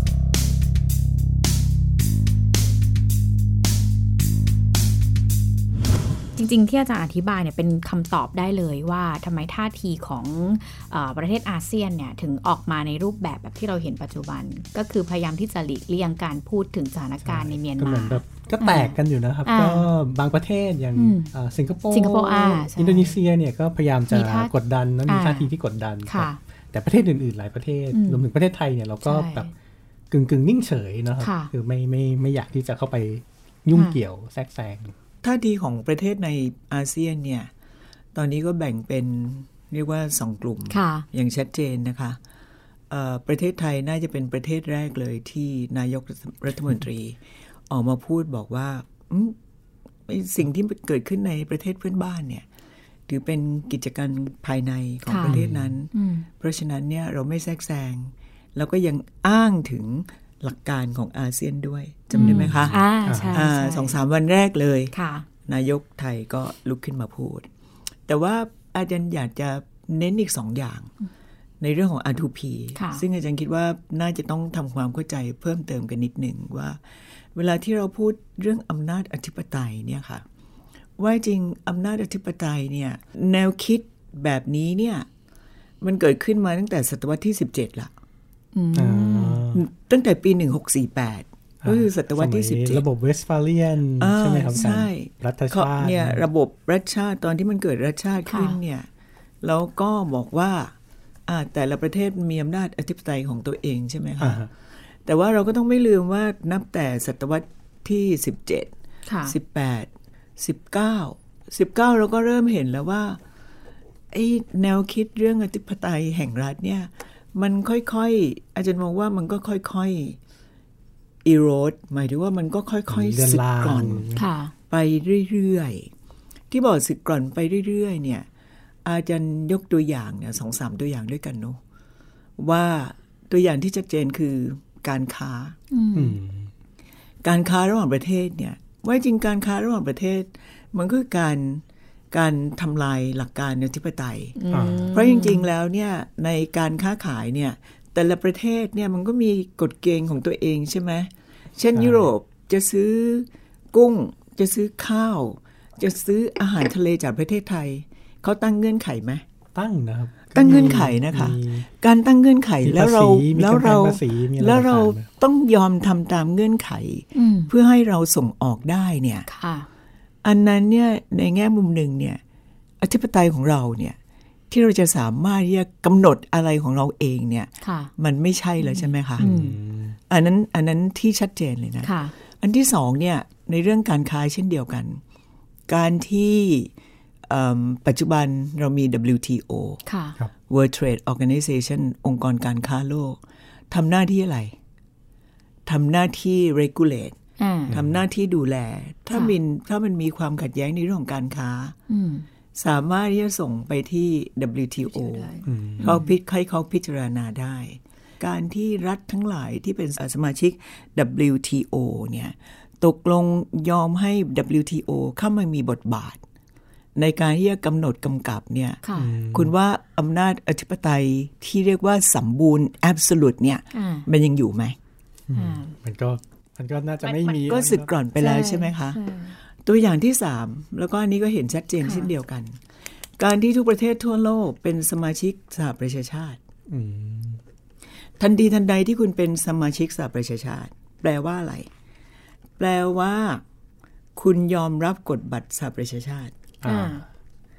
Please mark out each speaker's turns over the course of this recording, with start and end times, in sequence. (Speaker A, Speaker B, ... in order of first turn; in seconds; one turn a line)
Speaker A: 6.4-19.9
Speaker B: 17.2-29.5
Speaker A: 20.9-21.3
Speaker A: 21.9-23.2
Speaker A: 24.1-24.5
Speaker A: 25.1-25.5
Speaker A: 26.1-26.4
Speaker A: 27.9-28.3
Speaker A: 29.0-29.5
Speaker B: 30.1-34.9
Speaker A: 31.2-31.5
Speaker A: 33.7-34.0
Speaker C: 35.2-37.5
Speaker C: 38.1-42.2
Speaker A: 40.7-41.1
Speaker C: 42.9-47.2
Speaker C: 47.7-49.4
Speaker C: 50.1-52.5
Speaker C: 53.1-62.8
Speaker A: 55.1-55.4
Speaker B: 55.2-55.8
Speaker A: 55.9-56.3
Speaker A: 62.1-64.0
Speaker B: 62.2-63.5
Speaker C: 63.3-65.0
Speaker A: 64.9-65.3
Speaker C: 65.5-67.5
Speaker C: 68.1-70.9
Speaker C: 71.6-76.8
Speaker A: 72.8-73.0
Speaker C: 77.3-80.2
Speaker C: 81.0-85.1
Speaker C: 85.8-87.9
Speaker A: 88.5-89.4
Speaker B: 88.8-89.6
Speaker C: 89.5-92.8
Speaker B: 91.6-96.2
Speaker C: 94.0-98.9
Speaker A: 98.3-98.6
Speaker C: 99.4-100.7
Speaker C: 101.3-104.4
Speaker B: 104.2-104.5
Speaker C: 105.1-108.7
Speaker A: 109.1-109.3
Speaker C: 109.2-113.2
Speaker C: 114.1-120.2
Speaker C: 121.2-124.1
Speaker B: 122.9-124.3
Speaker A: 124.2-124.5
Speaker C: 124.7-125.9
Speaker C: 126.5-128.3
Speaker C: 128.8-131.6
Speaker C: 132.4-135.6
Speaker A: 135.7-136.2
Speaker B: 135.9-136.5
Speaker C: 137.2-159.2
Speaker A: 144.4-145.5
Speaker B: 144.5-144.9
Speaker B: 151.8-152.1
Speaker B: 159.6-161.7
Speaker C: 160.3-169.3
Speaker B: 162.6-165.1
Speaker A: 167.2-167.5
Speaker A: 169.3-169.7
Speaker C: 170.2-172.2
Speaker C: 172.8-174.0
Speaker C: 174.5-179.3
Speaker A: 177.6-177.9
Speaker A: 178.6-179.6
Speaker B: 179.2-180.0
Speaker C: 180.1-185.0
Speaker A: 181.8-182.1
Speaker C: 185.7-186.7
Speaker C: 187.3-189.8
Speaker A: 189.9-190.2
Speaker C: 190.5-193.2
Speaker C: 193.7-194.6
Speaker C: 195.7-197.2
Speaker A: 197.4-197.8
Speaker B: 197.7-198.0
Speaker C: 197.7-201.8
Speaker A: 201.9-202.2
Speaker C: 202.6-216.2
Speaker A: 204.9-206.1
Speaker B: 205.5-206.0
Speaker C: 217.0-224.8
Speaker A: 218.8-219.1
Speaker B: 219.0-219.5
Speaker A: 223.7-224.1
Speaker B: 225.3-227.9
Speaker A: 225.3-225.8
Speaker A: 227.1-227.4
Speaker C: 227.5-229.0
Speaker A: 228.2-229.3
Speaker C: 229.7-232.6
Speaker A: 231.8-232.1
Speaker C: 233.2-236.4
Speaker B: 236.7-237.4
Speaker C: 238.2-241.7
Speaker C: 242.6-243.4
Speaker C: 244.2-246.3
Speaker B: 246.6-247.0
Speaker A: 246.6-247.1